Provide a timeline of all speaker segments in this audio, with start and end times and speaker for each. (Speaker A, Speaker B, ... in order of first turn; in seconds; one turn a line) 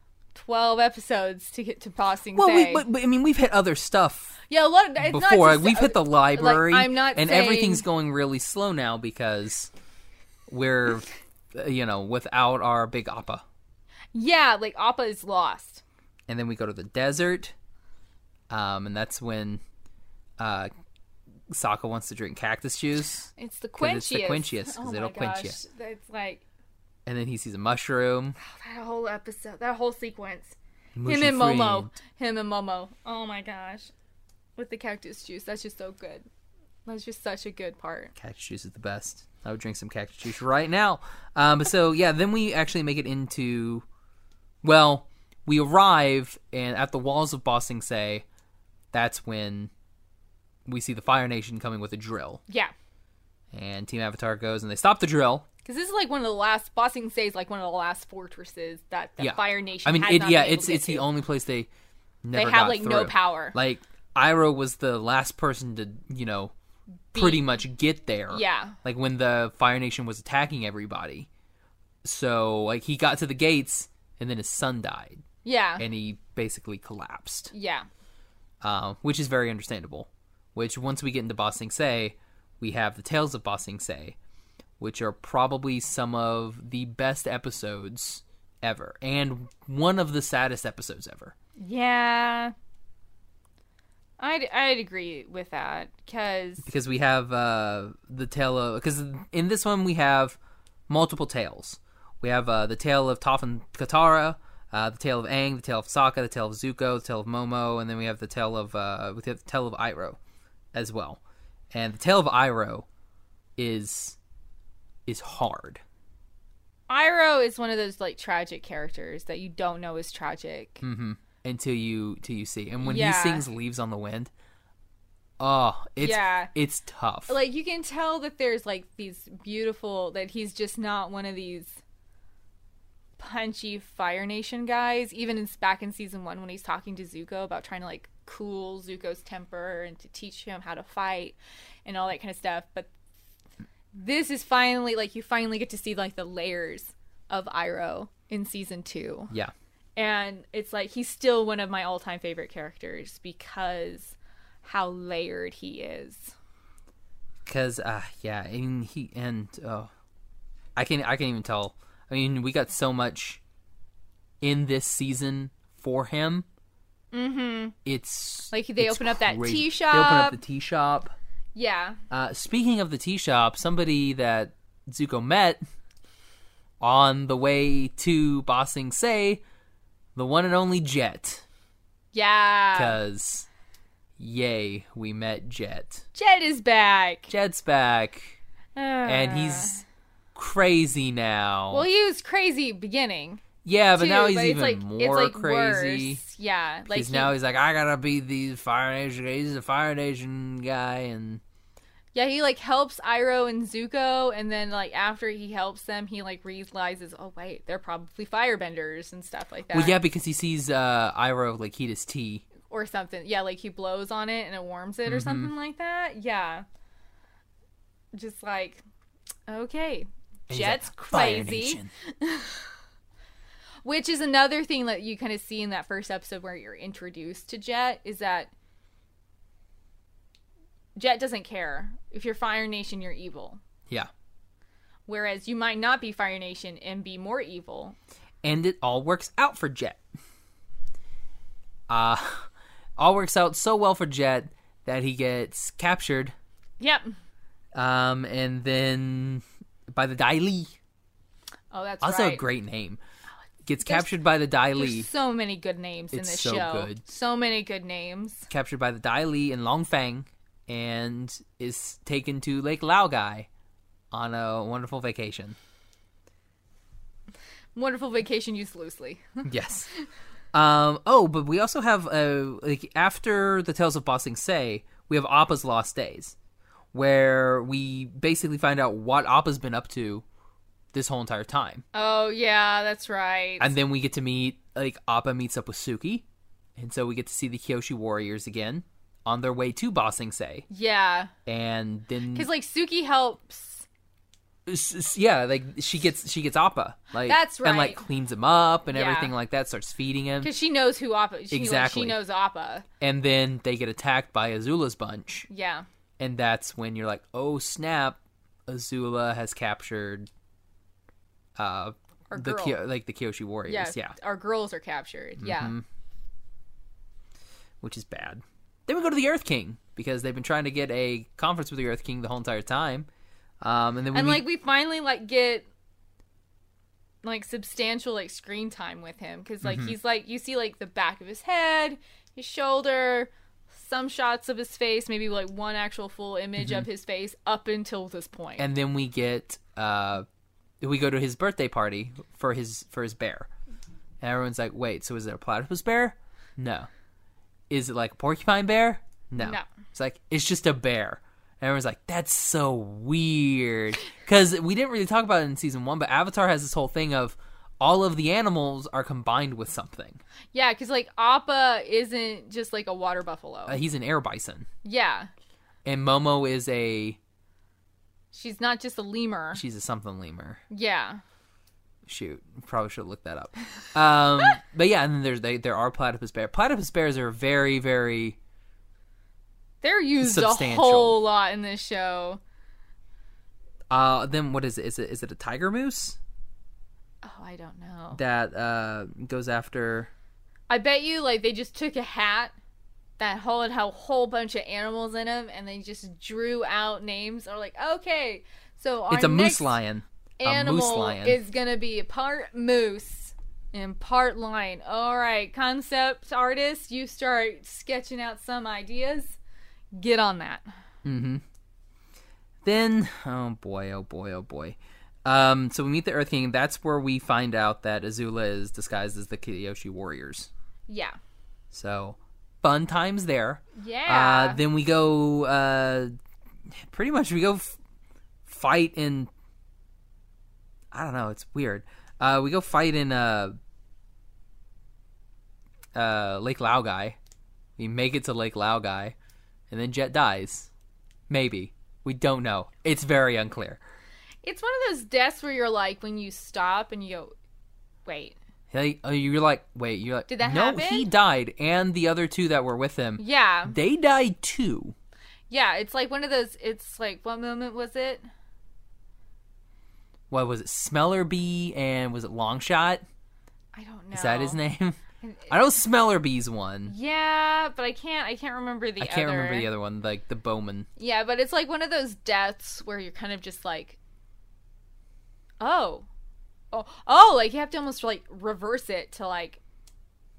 Speaker A: 0.3-2.8
Speaker B: 2.3-4.3
Speaker A: 4.5-7.8
Speaker B: 5.0-9.7
Speaker B: 10.5-13.4
Speaker A: 14.1-15.8
Speaker B: 16.3-17.5
Speaker B: 18.5-19.6
Speaker B: 20.4-20.7
Speaker B: 21.5-25.6
Speaker A: 23.4-26.4
Speaker B: 27.1-28.4
Speaker A: 28.4-30.5
Speaker B: 30.9-31.9
Speaker A: 31.1-33.9
Speaker A: 34.6-36.2
Speaker A: 36.9-38.1
Speaker B: 38.2-43.8
Speaker B: 44.6-48.2
Speaker B: 48.9-49.7
Speaker B: 50.6-52.4
Speaker B: 53.5-55.5
Speaker A: 55.6-61.0
Speaker B: 59.2-61.7
Speaker B: 62.2-66.5
Speaker A: 62.3-63.6
Speaker A: 67.1-67.4
Speaker B: 67.1-71.3
Speaker A: 68.3-68.8
Speaker B: 72.0-75.2
Speaker A: 75.4-75.8
Speaker B: 75.8-77.5
Speaker A: 77.5-77.9
Speaker B: 78.6-84.2
Speaker B: 84.8-91.3
Speaker A: 91.6-92.5
Speaker A: 94.2-96.7
Speaker B: 96.6-100.4
Speaker B: 100.9-110.2
Speaker B: 110.7-111.2
Speaker B: 111.7-112.8
Speaker B: 113.6-114.2
Speaker B: 115.0-115.8
Speaker A: 116.9-120.8
Speaker B: 120.8-124.3
Speaker A: 122.8-123.5
Speaker B: 125.4-127.3
Speaker A: 126.0-126.5
Speaker A: 127.3-131.8
Speaker A: 133.2-142.9
Speaker A: 143.9-149.3
Speaker A: 149.9-156.3
Speaker B: 157.4-159.9
Speaker B: 160.8-163.4
Speaker B: 164.4-166.4
Speaker A: 167.1-167.8
Speaker B: 167.8-171.1
Speaker A: 168.5-170.4
Speaker A: 171.5-172.0
Speaker B: 172.1-175.6
Speaker B: 176.8-179.4
Speaker B: 180.2-181.4
Speaker A: 182.1-183.0
Speaker B: 182.7-183.5
Speaker B: 184.2-186.0
Speaker A: 186.1-187.3
Speaker B: 187.3-188.4
Speaker A: 188.7-189.8
Speaker B: 189.0-189.8
Speaker B: 190.3-191.8
Speaker A: 191.7-193.4
Speaker B: 193.6-196.2
Speaker A: 193.9-197.3
Speaker B: 196.9-201.4
Speaker A: 202.1-210.0
Speaker B: 209.7-212.4
Speaker A: 212.7-216.6
Speaker B: 215.1-215.5
Speaker A: 218.1-218.8
Speaker A: 219.5-222.7
Speaker B: 220.5-221.9
Speaker A: 223.8-228.5
Speaker A: 230.9-233.6
Speaker A: 235.1-237.9
Speaker B: 238.4-240.0
Speaker B: 241.9-246.3
Speaker A: 246.8-247.1
Speaker B: 247.7-250.7
Speaker A: 251.7-252.4
Speaker B: 252.0-253.0
Speaker B: 253.7-255.1
Speaker A: 253.8-254.1
Speaker A: 254.8-258.5
Speaker B: 256.1-257.0
Speaker B: 258.5-263.5
Speaker B: 264.1-265.6
Speaker A: 267.8-269.4
Speaker B: 269.4-269.9
Speaker B: 270.5-276.3
Speaker B: 276.9-280.2
Speaker B: 280.9-281.8
Speaker A: 281.9-283.7
Speaker B: 283.6-286.2
Speaker B: 286.8-290.6
Speaker A: 290.7-291.3
Speaker B: 291.4-292.5
Speaker A: 292.3-293.8
Speaker B: 294.6-300.5
Speaker A: 297.2-298.0
Speaker A: 298.9-299.3
Speaker A: 300.4-302.8
Speaker B: 301.5-302.2
Speaker B: 303.0-305.5
Speaker A: 305.5-305.9
Speaker B: 306.2-310.3
Speaker B: 311.6-314.1
Speaker A: 312.3-312.8
Speaker A: 313.7-315.8
Speaker B: 315.4-315.8
Speaker B: 317.8-323.1
Speaker B: 323.6-324.4
Speaker A: 324.1-325.6
Speaker A: 327.2-338.7
Speaker B: 329.6-329.9
Speaker B: 336.6-336.9
Speaker B: 338.6-340.2
Speaker B: 340.8-343.5
Speaker B: 344.2-346.9
Speaker B: 347.7-360.2
Speaker A: 349.4-349.6
Speaker A: 360.5-363.8
Speaker B: 363.7-364.7
Speaker A: 364.8-365.3
Speaker B: 365.8-367.2
Speaker A: 368.3-369.6
Speaker B: 369.5-370.6
Speaker A: 370.7-371.2
Speaker B: 372.1-378.4
Speaker A: 379.8-382.4
Speaker B: 380.2-381.2
Speaker B: 383.9-386.2
Speaker A: 387.2-388.2
Speaker B: 388.1-390.1
Speaker A: 390.7-392.5
Speaker A: 393.2-399.8
Speaker B: 399.1-401.4
Speaker A: 400.4-409.4
Speaker A: 409.9-410.7
Speaker B: 411.0-411.4
Speaker B: 412.6-420.5
Speaker A: 420.9-421.1
Speaker B: 421.7-426.1
Speaker A: 423.7-424.6
Speaker B: 426.7-427.8
Speaker B: 428.4-429.3
Speaker B: 430.9-433.6
Speaker B: 435.9-437.2
Speaker B: 437.8-439.1
Speaker B: 439.7-440.7
Speaker B: 441.3-443.8
Speaker A: 444.4-447.3
Speaker A: 448.1-448.4
Speaker B: 448.7-454.9
Speaker A: 450.3-451.1
Speaker A: 453.2-453.8
Speaker A: 455.5-458.2
Speaker B: 460.3-463.0
Speaker A: 463.7-464.6
Speaker B: 464.1-465.0
Speaker A: 465.2-465.5
Speaker B: 465.5-466.9
Speaker A: 466.9-469.7
Speaker B: 469.0-470.9
Speaker A: 471.0-474.0
Speaker A: 475.6-476.1
Speaker A: 476.7-479.6